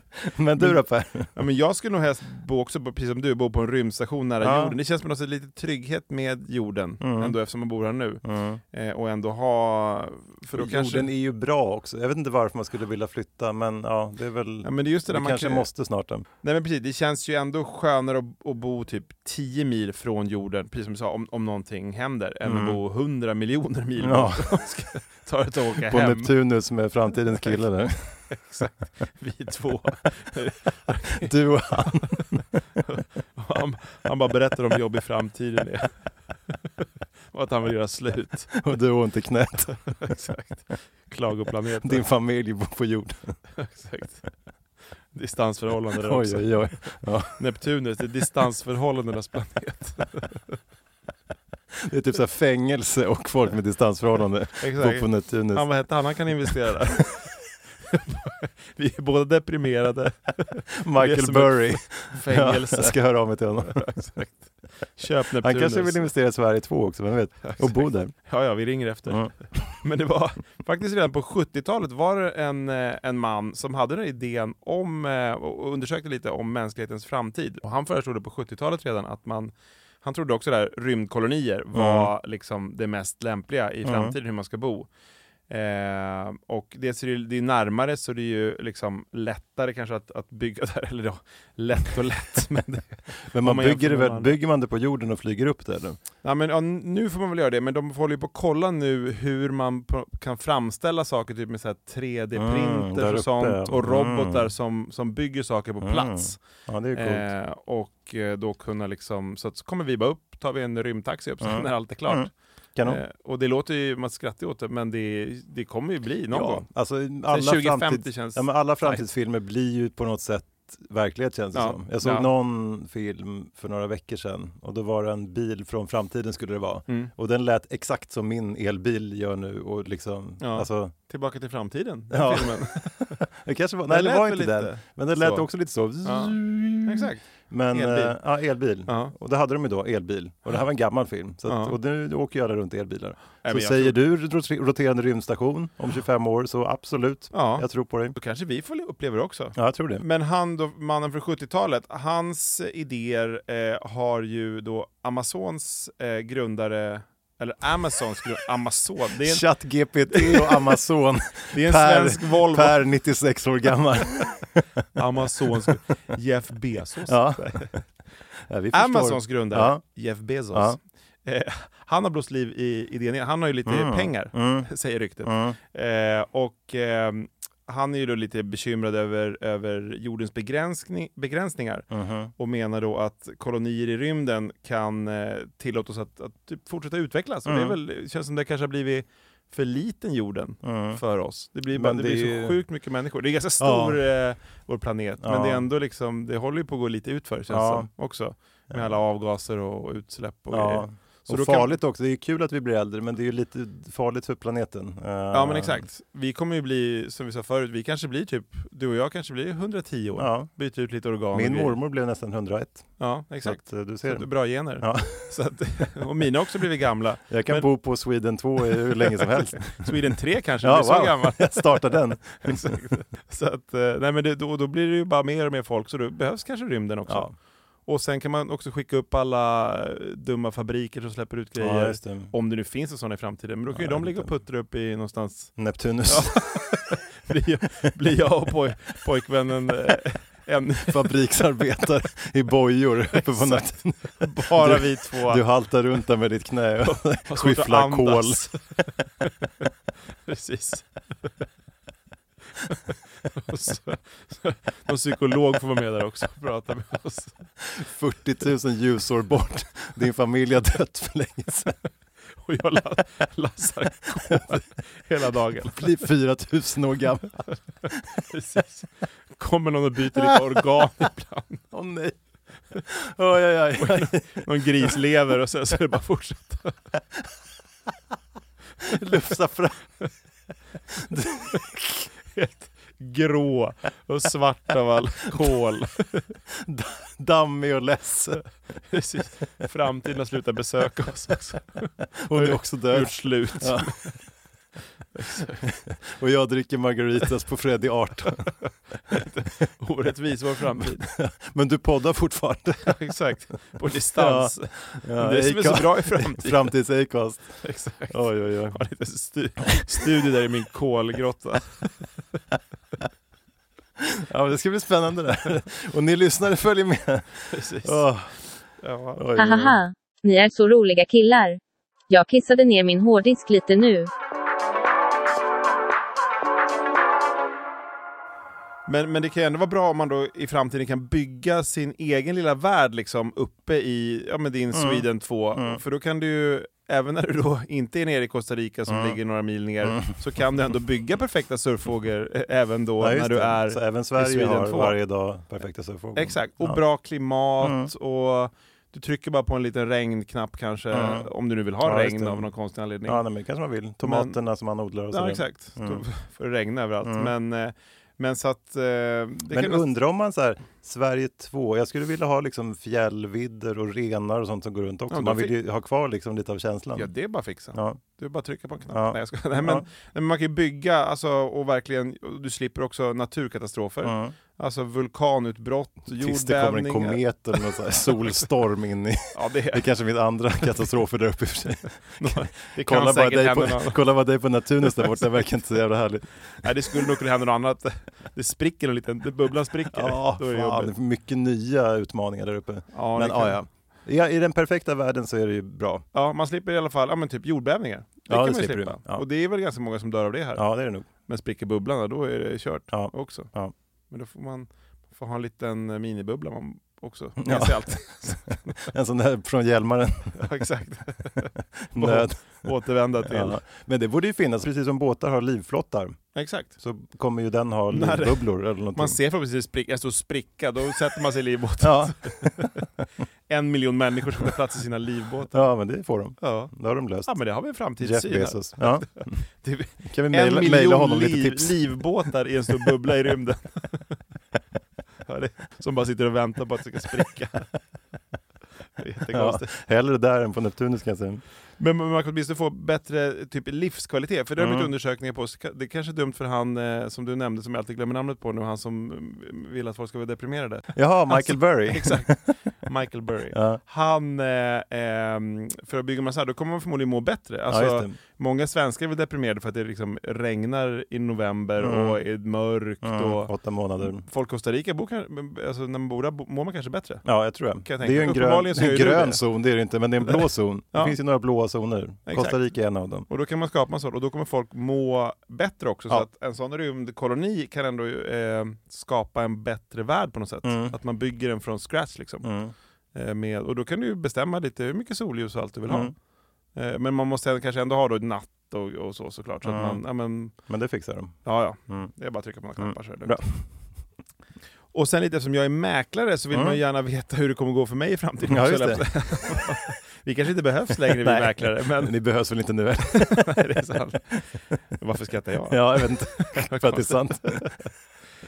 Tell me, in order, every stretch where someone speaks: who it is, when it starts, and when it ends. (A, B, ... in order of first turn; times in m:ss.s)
0:00.2-0:01.3 A
0:01.3-0:11.1 B
0:04.4-0:04.8 A
0:07.0-0:07.4 A
0:08.2-0:08.6 A
0:10.5-0:16.2 A
0:14.6-0:15.6 B
0:16.4-0:26.3 B
0:22.4-0:22.8 A
0:24.0-0:24.5 A
0:25.9-0:28.2 A
0:28.3-0:32.2 B
0:31.2-0:32.6 A
0:32.9-0:36.5 B
0:37.3-0:38.7 B
0:38.6-0:39.8 A
0:39.7-0:42.0 B
0:41.8-0:43.4 A
0:43.6-0:44.2 B
0:45.1-0:50.6 B
0:45.9-0:47.4 A
0:51.8-0:55.7 A
0:54.6-0:57.4 B
0:57.9-1:06.1 B
1:00.8-1:03.8 A
1:05.4-1:08.2 A
1:07.4-1:19.5 B
1:20.0-1:24.9 B
1:21.7-1:22.1 A
1:23.8-1:24.2 A
1:25.5-1:34.3 B
1:33.3-1:36.0 A
1:36.2-1:46.4 B
1:42.4-1:44.5 A
1:45.8-1:47.2 A
1:46.9-1:52.3 B
1:51.4-1:53.0 A
1:52.8-1:56.6 B
1:56.3-2:10.9 A
1:57.3-1:59.0 B
2:01.5-2:02.3 B
2:10.4-2:13.2 B
2:12.1-2:28.2 A
2:13.9-2:15.4 B
2:16.0-2:18.2 B
2:18.8-2:19.1 B
2:21.5-2:21.7 B
2:23.4-2:24.0 B
2:27.3-2:39.5 B
2:29.6-2:30.0 A
2:39.2-2:45.7 A
2:40.1-2:40.8 B
2:41.5-2:42.8 B
2:45.0-2:47.8 B
2:47.1-2:47.8 A
2:48.5-2:49.8 A
2:48.7-3:21.7 B
2:53.6-2:54.7 A
2:55.2-2:55.6 A
3:01.9-3:02.3 A
3:07.4-3:07.8 A
3:10.6-3:11.0 A
3:11.7-3:12.6 A
3:13.6-3:14.0 A
3:15.2-3:15.6 A
3:17.5-3:17.9 A
3:18.7-3:19.0 A
3:20.5-3:25.8 A
3:25.3-3:31.8 B
3:30.1-3:30.5 A
3:31.3-3:35.3 A
3:33.0-3:37.7 B
3:37.3-3:39.9 A
3:39.0-3:47.3 B
3:40.6-3:42.8 A
3:47.1-3:47.3 A
3:47.8-4:01.1 B
3:51.6-3:52.3 A
3:53.7-3:54.3 A
3:55.6-3:56.4 A
4:00.8-4:08.5 A
4:03.1-4:03.6 B
4:04.2-4:05.4 B
4:06.8-4:08.6 B
4:10.3-4:10.8 B
4:12.6-4:17.3 B
4:17.6-4:21.7 A
4:22.4-4:26.0 B
4:25.7-4:27.4 A
4:28.3-4:31.6 B
4:30.2-4:30.4 A
4:31.7-4:32.2 A
4:32.9-4:34.9 A
4:33.8-4:36.7 B
4:38.8-4:39.8 A
4:40.9-4:42.1 A
4:42.3-4:46.2 B
4:46.6-4:48.4 A
4:48.9-4:54.2 B
4:52.2-4:54.0 A
4:55.2-4:55.7 B
4:55.7-4:58.5 A
4:58.6-5:01.1 B
5:00.8-5:03.0 A
5:02.8-5:06.7 B
5:04.1-5:08.8 A
5:07.6-5:08.2 B
5:08.7-5:11.9 B
5:14.0-5:18.3 A
5:17.5-5:18.0 B
5:18.8-5:19.2 B
5:19.2-5:19.8 A
5:19.4-5:21.6 C
5:22.1-5:24.1 C
5:28.9-5:44.9 B
5:34.7-5:35.8 A
5:38.9-5:39.2 A
5:39.8-5:40.1 A
5:43.0-5:46.8 A
5:46.2-5:53.2 B
5:47.6-5:47.9 A
5:50.9-5:51.3 A
5:51.8-5:52.5 A
5:53.0-5:56.0 A
5:54.0-5:54.4 B
5:55.1-5:59.8 B
5:57.0-5:57.3 A
5:59.5-6:07.1 A
6:05.1-6:05.5 B
6:06.9-6:18.2 B
6:07.7-6:08.0 A
6:08.9-6:09.8 A
6:14.0-6:14.3 A
6:16.1-6:26.9 A
6:19.3-6:19.8 B
6:22.2-6:24.0 B
6:26.6-6:30.9 B
6:29.9-6:36.0 A
6:32.9-6:33.6 B
6:36.1-6:40.7 B
6:38.3-6:39.2 A
6:40.6-6:41.0 A
6:41.3-6:43.5 B
6:42.9-6:43.7 A
6:44.1-6:48.8 B
6:47.4-6:50.5 A
6:50.4-6:53.6 B
6:51.9-6:52.4 A
6:53.2-6:59.2 A
6:56.3-6:56.7 B
6:57.9-7:02.7 B
7:01.8-7:02.7 A
7:03.5-7:05.6 B
7:05.5-7:07.3 A
7:06.4-7:06.7 B
7:07.2-7:14.2 B
7:08.0-7:09.4 A
7:10.0-7:11.8 A
7:15.2-7:17.7 B
7:19.0-7:19.7 B
7:19.3-7:21.4 A
7:21.8-7:47.2 B
7:24.6-7:24.9 A
7:31.0-7:32.4 A
7:33.5-7:33.8 A
7:37.7-7:38.1 A
7:41.8-7:42.2 A
7:43.0-7:44.2 A
7:47.2-7:53.3 A
7:47.8-7:49.4 B
7:52.3-7:52.6 B
7:53.3-8:02.5 B
8:00.6-8:01.0 A
8:02.4-8:02.7 A
8:03.1-8:06.1 B
8:05.9-8:06.1 A
8:06.7-8:10.6 B
8:09.6-8:10.0 A
8:10.6-8:12.1 A
8:11.4-8:13.4 B
8:12.8-8:13.6 A
8:14.9-8:22.1 B
8:16.5-8:16.8 A
8:18.4-8:19.2 A
8:21.2-8:23.8 A
8:23.1-8:27.7 B
8:25.7-8:27.8 A